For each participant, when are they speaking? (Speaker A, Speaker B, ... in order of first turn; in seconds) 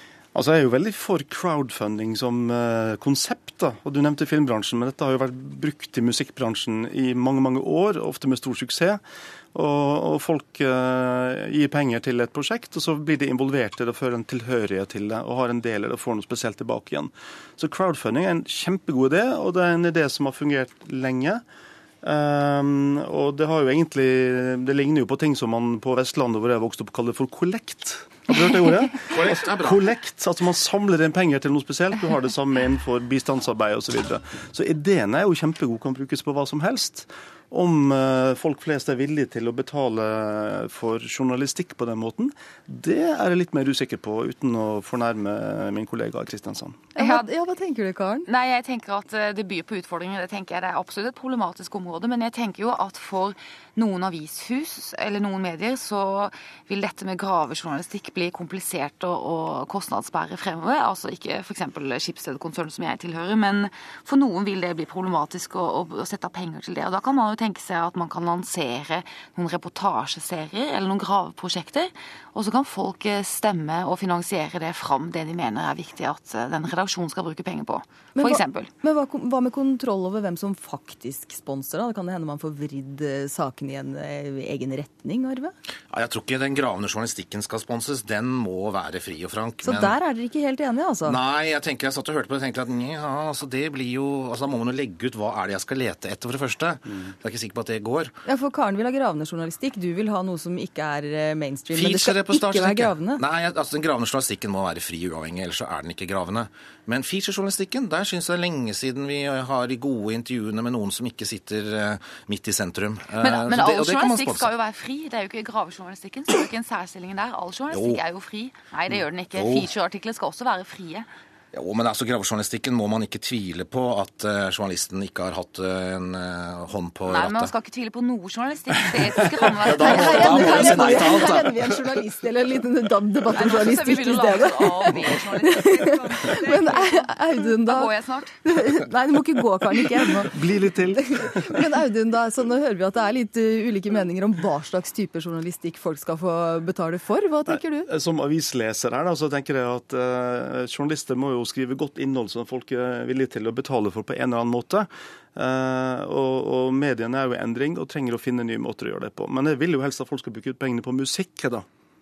Speaker A: 0.3-9.0, 9.5-21.4, 22.0-46.8, 140.3-141.6, 147.5-161.7
Speaker B: 29.1-29.8, 85.9-90.0, 91.0-98.1, 101.7-114.5, 117.7-118.0, 119.3-119.7, 121.5-127.5, 129.6-131.6
Speaker C: 47.0-48.3, 78.2-85.5, 89.6-91.2, 98.2-103.2, 129.8-140.4, 140.9-147.9
Speaker D: 47.0-47.3, 48.3-78.7, 113.2-121.1, 127.1-131.4, 133.3-138.4